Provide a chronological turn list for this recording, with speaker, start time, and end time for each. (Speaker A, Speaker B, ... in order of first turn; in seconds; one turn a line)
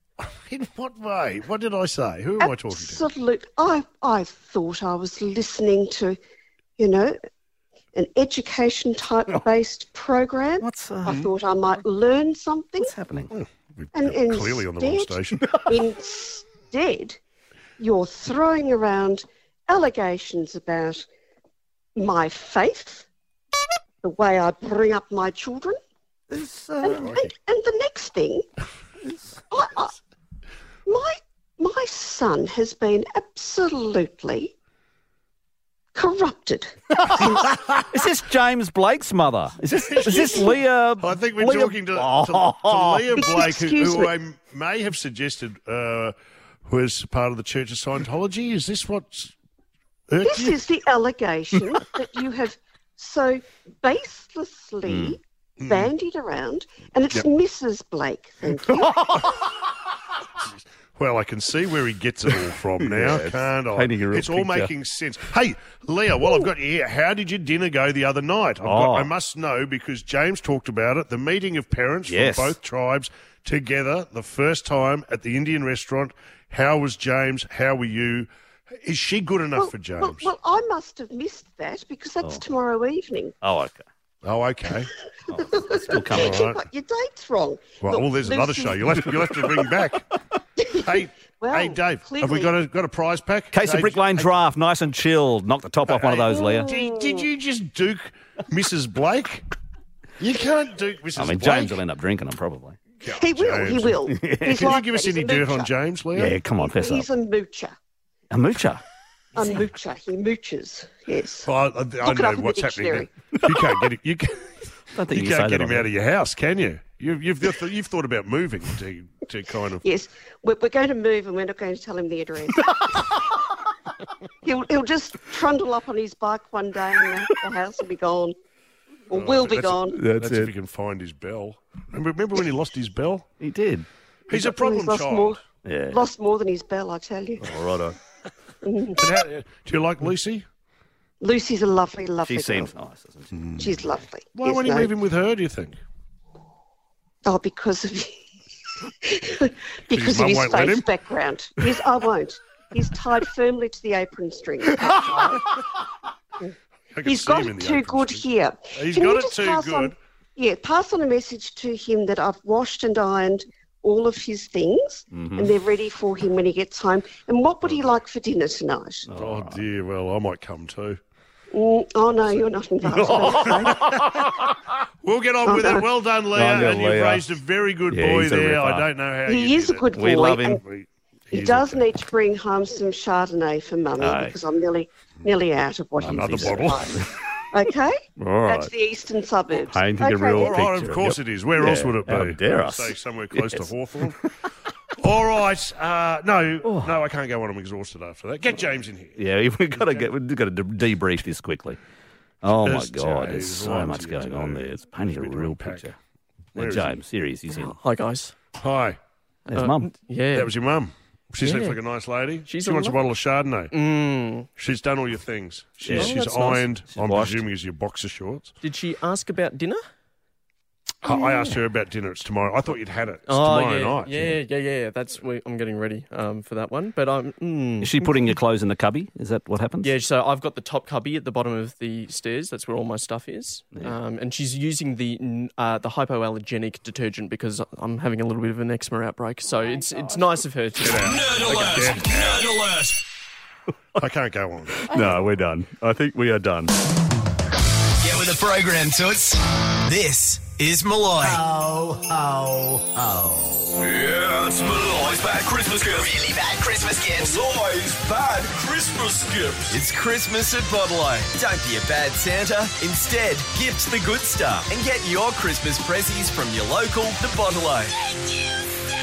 Speaker A: 0.5-3.0
Speaker B: 2.4-6.2
Speaker B: 6.8-7.2
Speaker B: 7.9-12.9
Speaker C: 10.6-11.3
Speaker C: 12.8-13.3
Speaker A: 13.3-15.4
Speaker B: 13.9-17.2
Speaker B: 17.8-21.1
Speaker B: 22.0-23.1
Speaker B: 24.0-25.8
Speaker C: 26.3-27.1
Speaker B: 26.8-28.5
Speaker A: 26.9-27.2
Speaker B: 29.5-29.9
Speaker B: 30.9-34.5
Speaker B: 35.9-37.5
Speaker A: 37.4-37.8
Speaker C: 37.9-43.1
Speaker A: 39.9-46.1
Speaker B: 39.9-40.6
Speaker B: 43.1-44.1
Speaker A: 46.7-49.3
Speaker A: 50.1-50.6
Speaker B: 50.2-59.0
Speaker C: 54.9-55.2
Speaker A: 55.6-55.9
Speaker C: 58.7-59.3
Speaker A: 60.5-78.3
Speaker C: 62.3-64.7
Speaker B: 66.2-66.5
Speaker C: 68.6-69.1
Speaker C: 72.1-72.6
Speaker A: 78.8-80.3
Speaker B: 79.6-83.3
Speaker C: 83.4-83.8
Speaker A: 84.2-84.9
Speaker C: 85.3-86.4
Speaker B: 85.3-89.4
Speaker A: 86.0-86.6
Speaker A: 87.8-90.0
Speaker B: 90.6-92.5
Speaker A: 90.8-94.3
Speaker C: 93.5-96.7
Speaker A: 95.8-99.5
Speaker B: 96.3-97.3
Speaker A: 100.2-101.8
Speaker C: 101.2-102.8
Speaker A: 103.0-106.3
Speaker B: 103.1-105.7
Speaker C: 104.1-104.7
Speaker C: 106.2-107.1
Speaker B: 106.6-107.8
Speaker C: 108.3-108.8
Speaker B: 109.4-111.5
Speaker A: 111.5-114.5
Speaker B: 112.0-113.1
Speaker C: 114.9-115.9
Speaker A: 115.1-119.8
Speaker B: 119.8-122.6
Speaker B: 124.4-128.3
Speaker B: 129.1-130.0
Speaker A: 129.1-133.3
Speaker C: 129.9-130.5
Speaker C: 133.4-133.9
Speaker A: 134.3-135.4
Speaker B: 134.3-135.4
Speaker C: 135.6-136.0
Speaker B: 135.9-137.6
Speaker C: 137.4-138.0
Speaker B: 138.6-139.0
Speaker A: 139.0-140.4
Speaker B: 141.2-142.7
Speaker C: 142.2-143.3
Speaker A: 143.3-143.7
Speaker B: 143.6-144.9
Speaker A: 144.3-145.8
Speaker B: 147.2-148.2
Speaker B: 149.0-155.5
Speaker A: 149.9-150.9
Speaker A: 156.9-159.9
Speaker B: 157.1-169.1
Speaker C: 165.1-165.5
Speaker C: 169.1-169.6
Speaker A: 169.2-171.0
Speaker B: 171.5-174.0
Speaker C: 172.9-174.3
Speaker A: 172.9-174.4
Speaker A: 175.0-179.9
Speaker B: 175.5-175.9
Speaker C: 176.3-177.3
Speaker C: 177.9-178.9
Speaker B: 179.3-180.6
Speaker C: 179.9-180.6
Speaker A: 180.6-181.8
Speaker B: 181.3-187.0
Speaker C: 184.0-184.4
Speaker C: 186.0-187.1
Speaker A: 186.0-187.0
Speaker B: 187.5-190.6
Speaker C: 188.2-188.7
Speaker C: 189.5-194.2
Speaker A: 190.3-194.2
Speaker A: 195.0-199.2
Speaker C: 196.6-197.0
Speaker C: 199.2-201.8
Speaker A: 199.7-200.1
Speaker C: 202.4-206.0
Speaker A: 202.6-205.9
Speaker A: 206.6-207.0
Speaker C: 206.6-207.8
Speaker D: 207.5-208.3
Speaker A: 208.6-209.0
Speaker C: 209.5-209.9
Speaker D: 209.5-210.5
Speaker A: 210.3-213.7
Speaker D: 211.4-211.8
Speaker D: 212.5-213.0
Speaker D: 213.7-214.5
Speaker A: 214.6-218.5
Speaker C: 215.8-216.2
Speaker D: 215.9-216.7
Speaker C: 216.8-217.4
Speaker D: 218.6-219.8
Speaker A: 221.0-224.4
Speaker D: 223.3-228.3
Speaker C: 227.8-229.9
Speaker D: 229.8-241.7
Speaker C: 239.8-240.2
Speaker A: 240.8-242.5
Speaker C: 241.8-242.2
Speaker A: 244.0-244.8
Speaker C: 244.7-246.7
Speaker E: 248.0-251.4
Speaker C: 251.3-253.8
Speaker F: 253.8-256.1
Speaker E: 255.8-257.9
Speaker F: 257.5-259.8
Speaker E: 259.7-267.9